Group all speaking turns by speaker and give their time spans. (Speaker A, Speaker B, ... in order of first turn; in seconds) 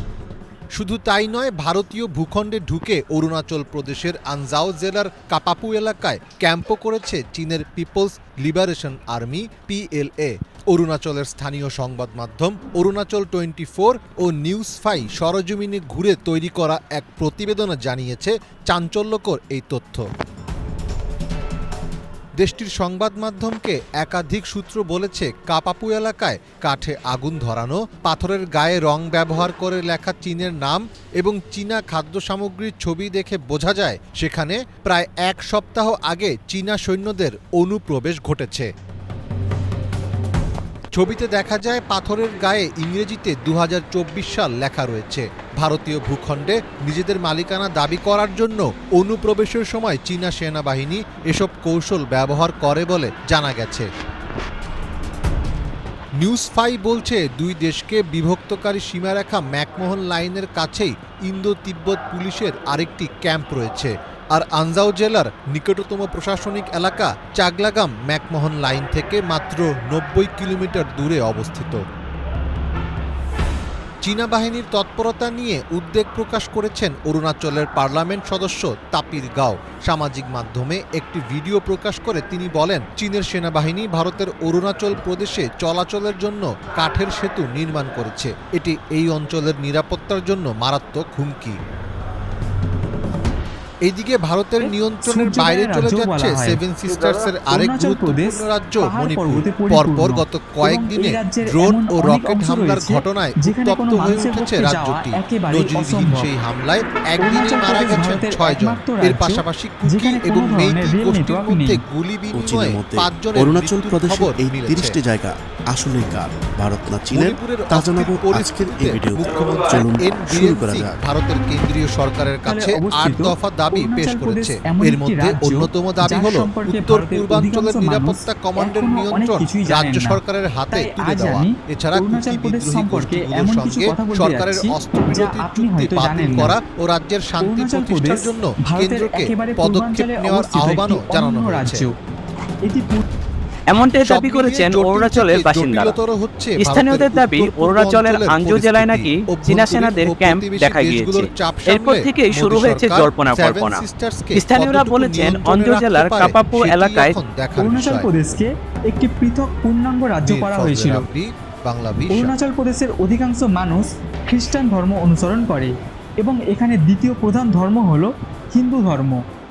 Speaker A: 0.7-20.0, 22.4-38.7, 40.9-53.9, 56.2-71.8, 74.0-91.6, 93.8-115.0, 117.1-141.8, 144.0-158.1, 160.2-162.3
Speaker B: 94.6-106.3, 107.2-111.8, 122.5-130.2, 130.7-136.5, 137.4-141.9, 142.6-143.0, 157.6-161.1, 162.1-169.2
Speaker C: 112.3-121.0
Speaker D: 143.7-145.9, 146.6-153.8, 154.3-157.1